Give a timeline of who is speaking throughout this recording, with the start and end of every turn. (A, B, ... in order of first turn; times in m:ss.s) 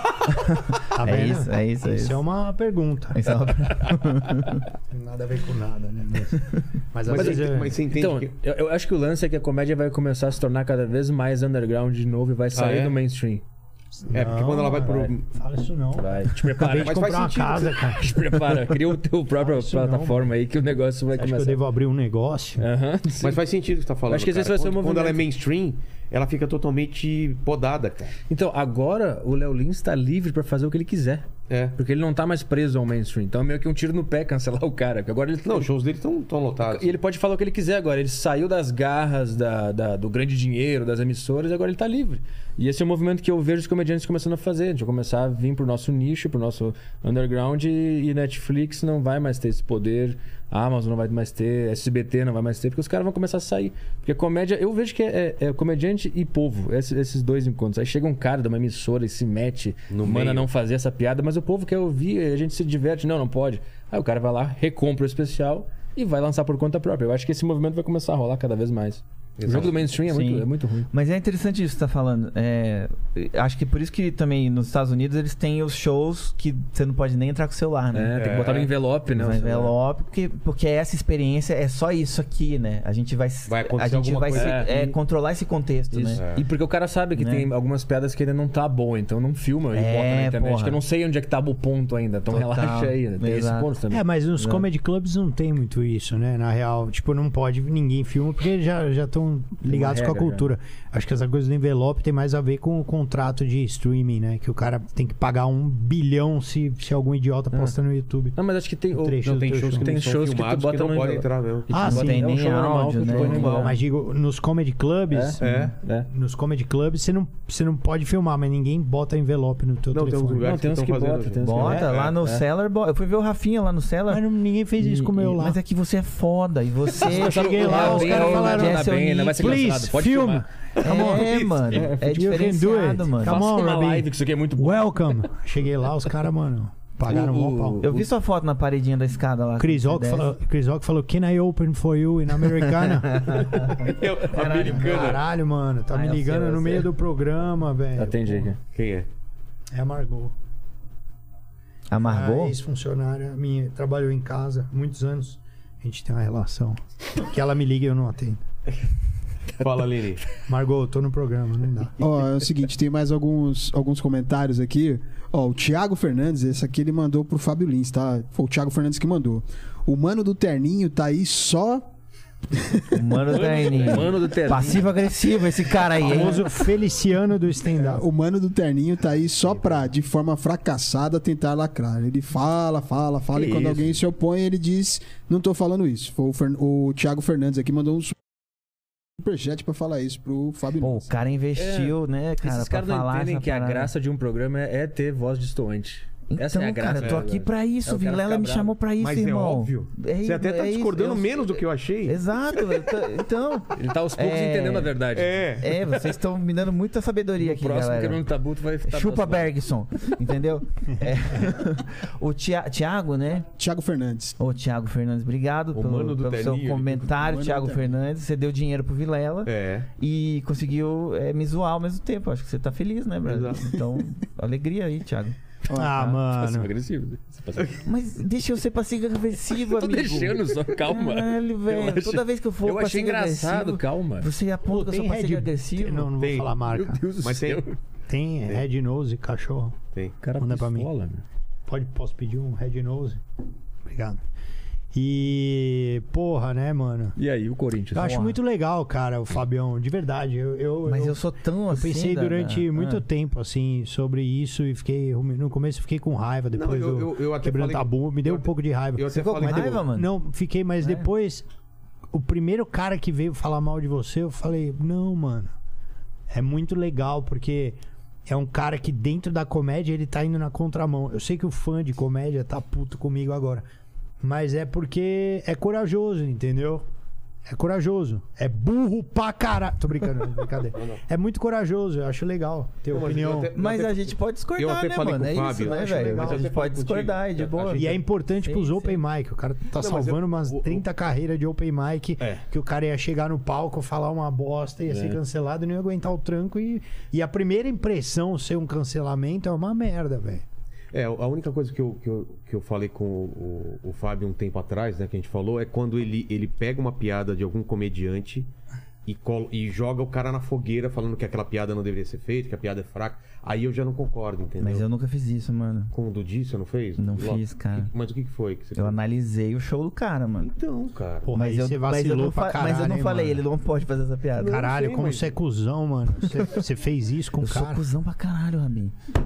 0:00.3-0:02.2 A
0:00.9-0:03.3 B
0:03.1-0:04.6 A
0:04.9-0:07.7 B
0:07.0-0:08.3 C
0:07.2-0:13.4 D
0:12.5-0:13.0 C
0:14.0-0:18.8 B
0:14.1-0:15.3 C
0:14.8-0:15.1 D
0:16.0-0:17.0 D
0:16.6-0:18.0 C
0:18.0-0:21.6 D
0:19.3-0:20.4 B
0:21.1-0:22.6 B
0:22.6-0:23.4 D
0:23.2-0:28.2 C
0:24.1-0:25.2 D
0:28.3-0:35.7 D
0:31.5-0:31.8 C
0:35.4-0:37.0 C
0:36.6-1:10.9 D
0:59.9-1:00.5 C
1:09.4-1:09.9 C
1:10.0-1:18.2 A
1:17.9-1:19.7 D
1:18.2-1:18.7 C
1:19.1-1:26.2 A
1:23.5-1:24.6 C
1:24.3-1:25.0 D
1:25.9-1:34.0 D
1:26.2-1:26.4 C
1:27.1-1:27.5 A
1:29.7-1:30.8 A
1:32.3-1:33.7 A
1:33.9-1:48.4 B
1:39.7-1:40.5 D
1:48.4-1:53.8 D
1:48.9-1:49.9 B
1:49.2-1:51.7 C
1:51.7-1:52.3 B
1:51.8-1:53.7 A
1:53.1-1:53.5 C
1:53.1-2:00.5 B
1:55.1-1:56.1 D
1:55.4-1:55.7 C
1:59.9-2:02.1 C
2:00.4-2:02.4 D
2:01.4-2:04.2 A
2:01.6-2:01.9 B
2:04.1-2:05.6 B
2:04.8-2:09.7 A
2:07.0-2:17.8 B
2:07.0-2:12.3 D
2:10.8-2:13.4 A
2:13.2-2:15.2 D
2:17.1-2:18.1 D
2:17.8-2:20.3 A
2:19.6-2:23.5 B
2:22.8-2:25.0 A
2:23.7-2:25.2 C
2:24.5-2:28.5 B
2:25.9-2:26.8 A
2:28.0-2:28.6 D
2:28.7-2:29.1 C
2:29.7-2:30.3 B
2:31.9-2:32.6 A
2:32.0-2:38.4 B
2:39.6-2:40.3 C
2:40.4-2:42.0 B
2:42.0-2:51.9 E
2:52.5-2:53.0 E
2:52.9-2:56.5 A
2:53.3-2:54.9 D
2:56.0-2:58.0 B
2:57.8-3:08.2 E
3:03.3-3:03.9 D
3:09.2-3:11.1 E
3:10.8-3:13.9 A
3:11.6-3:18.7 D
3:16.3-3:21.5 A
3:19.0-3:22.8 C
3:22.0-3:24.9 A
3:23.7-3:25.4 D
3:25.1-3:26.1 C
3:25.6-3:28.2 A
3:27.4-3:29.5 D
3:28.8-3:33.5 A
3:33.6-3:34.4 E
3:34.4-3:45.4 A
3:35.7-3:37.2 C
3:37.2-3:37.9 E
3:39.4-3:39.9 C
3:43.2-3:43.6 C
3:45.7-3:46.7 B
3:46.0-3:47.8 D
3:47.8-3:56.1 A
3:49.6-3:54.3 D
3:54.6-3:57.0 B
3:56.2-3:56.5 C
3:56.7-3:57.8 D
3:57.2-3:57.6 C
3:58.1-3:59.8 B
4:00.2-4:01.2 D
4:00.4-4:00.9 B
4:01.7-4:03.2 B
4:03.8-4:04.2 B
4:04.9-4:07.2 B
4:07.2-4:08.2 D
4:07.9-4:21.4 B
4:08.0-4:08.3 A
4:10.8-4:13.0 A
4:16.5-4:19.8 C
4:19.1-4:20.1 A
4:20.8-4:21.1 A
4:22.1-4:25.5 B
4:26.3-4:33.6 B
4:34.2-4:36.8 B
4:37.4-4:43.5 B
4:40.7-4:41.0 C
4:42.9-4:48.0 C
4:43.5-4:49.0 A
4:45.6-4:46.4 B
4:47.7-5:00.4 B
4:49.8-4:50.8 C
4:54.9-4:55.2 D
5:00.9-5:08.5 C
5:09.0-5:14.8 C
5:14.6-5:15.9 A
5:15.9-5:19.0 C
5:17.0-5:17.9 A
5:18.8-5:20.5 A
5:20.4-5:21.3 C
5:21.2-5:23.4 B
5:21.3-5:24.6 A
5:24.4-5:25.4 C
5:24.4-5:27.8 B
5:27.4-5:28.9 A